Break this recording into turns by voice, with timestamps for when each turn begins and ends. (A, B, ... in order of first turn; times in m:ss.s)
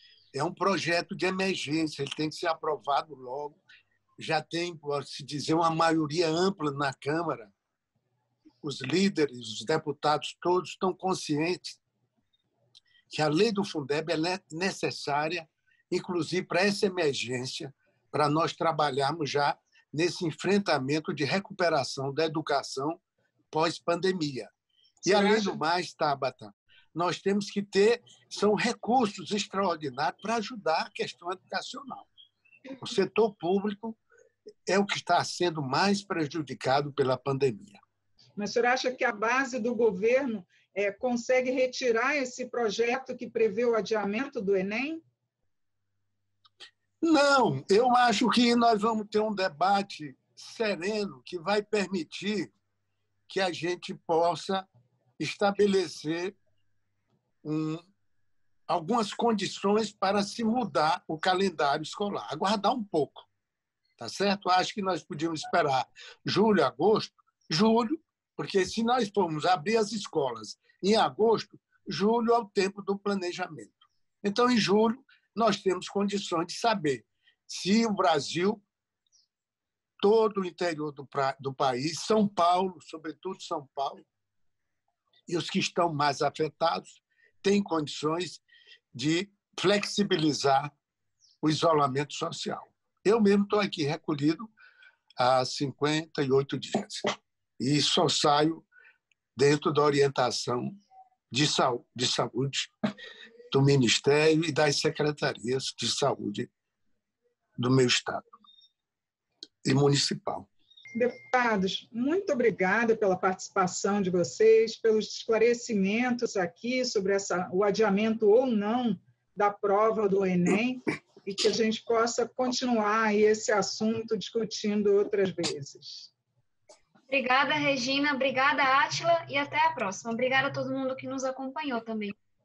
0:00.3-0:03.6 A
0:04.2-0:07.5 A
0:08.6-0:11.8 A
0:13.1-0:23.0 A
0:23.5-0:24.5 A
0:25.0-0:32.1 A
0:25.0-0:25.5 B
0:32.8-0:34.0 A
0:34.7-0:37.8 A
0:38.4-0:45.0 B
0:47.0-0:52.5 A
0:53.3-0:54.7 A
0:55.2-0:56.4 A
0:57.4-0:57.9 A
0:58.7-1:03.3 A
1:04.0-1:18.6 A
1:20.0-1:24.1 A
1:25.3-1:28.4 A
1:28.9-1:30.7 A
1:31.4-1:34.5 A
1:35.2-1:37.0 A
1:37.6-1:38.7 A
1:39.4-1:40.8 A
1:41.3-1:42.7 A
1:43.5-1:46.5 A
1:47.6-1:48.3 A
1:49.6-1:50.5 A
1:51.0-2:06.1 B
2:07.1-2:12.2 C